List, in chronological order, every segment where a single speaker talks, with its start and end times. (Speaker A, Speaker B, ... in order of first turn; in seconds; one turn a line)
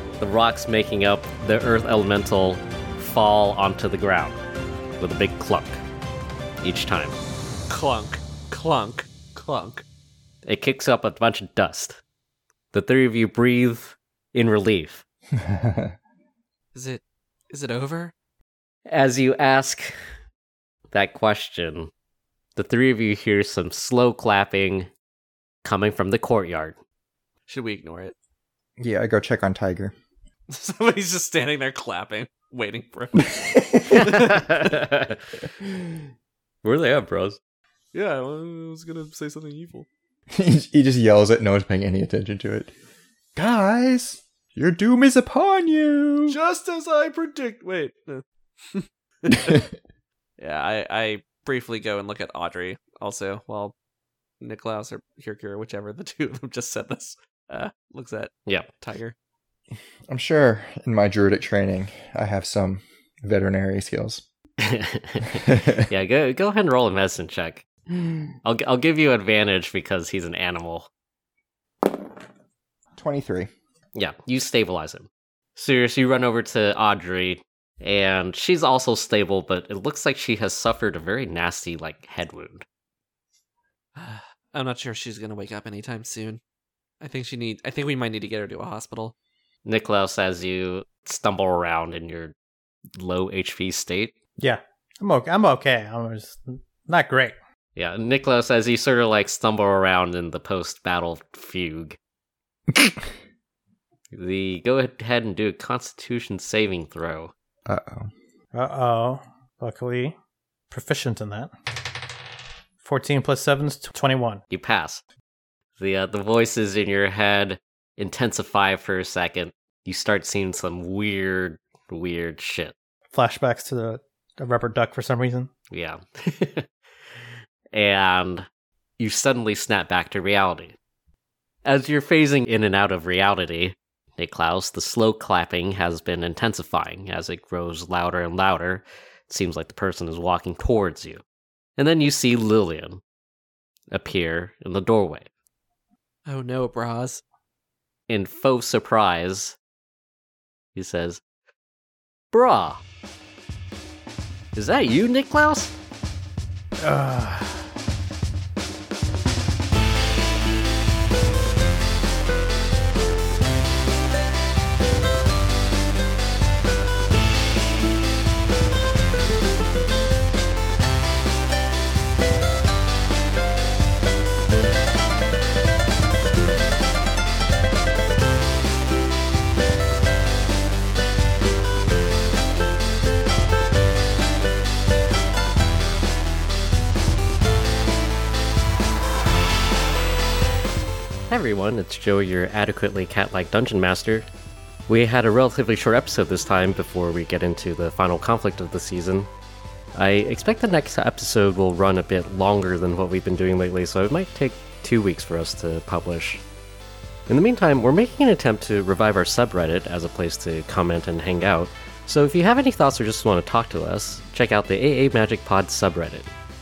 Speaker A: 0.2-4.4
Speaker A: 5.0-5.8
Speaker A: 6.6-7.2
Speaker B: 7.7-9.8
Speaker A: 10.4-12.0
Speaker A: 12.7-15.0
Speaker C: 15.3-15.9
Speaker B: 16.7-18.1
Speaker A: 18.9-19.9
Speaker A: 20.9-21.9
Speaker A: 22.6-24.9
Speaker A: 25.6-26.8
Speaker B: 27.5-28.1
Speaker C: 28.8-29.9
Speaker B: 30.5-33.3
Speaker C: 33.2-34.2
Speaker A: 33.9-35.2
Speaker B: 34.0-34.5
Speaker A: 36.6-37.4
Speaker B: 37.9-39.9
Speaker C: 40.3-42.7
Speaker C: 43.4-46.4
Speaker B: 46.3-49.6
Speaker C: 49.3-49.6
Speaker B: 50.4-53.7
Speaker B: 54.4-59.1
Speaker C: 60.1-64.2
Speaker A: 64.6-67.7
Speaker C: 65.3-65.8
Speaker A: 68.4-70.9
Speaker C: 72.9-73.5
Speaker A: 73.9-82.6
Speaker B: 84.0-86.4
Speaker B: 87.0-89.1
Speaker A: 89.6-92.3
Speaker A: 93.0-94.1
Speaker D: 94.4-97.3
Speaker A: 97.8-102.0
Speaker A: 104.1-107.3
Speaker C: 107.7-108.1
Speaker D: 108.5-110.1
Speaker D: 110.7-111.5
Speaker D: 112.8-114.4
Speaker A: 114.5-115.0
Speaker A: 115.8-122.7
Speaker D: 123.1-125.5
Speaker A: 125.7-126.7
Speaker A: 127.7-128.5
Speaker A: 129.0-130.7
Speaker A: 131.6-141.2
Speaker A: 141.8-143.0
Speaker A: 143.9-145.3
Speaker B: 146.2-147.2
Speaker A: 148.1-149.6
Speaker A: 150.7-151.2
Speaker A: 152.3-152.8
Speaker A: 154.5-155.7
Speaker D: 156.8-157.6
Speaker A: 191.3-194.2
Speaker A: 194.9-199.3
Speaker A: 199.9-206.4
Speaker A: 207.3-216.3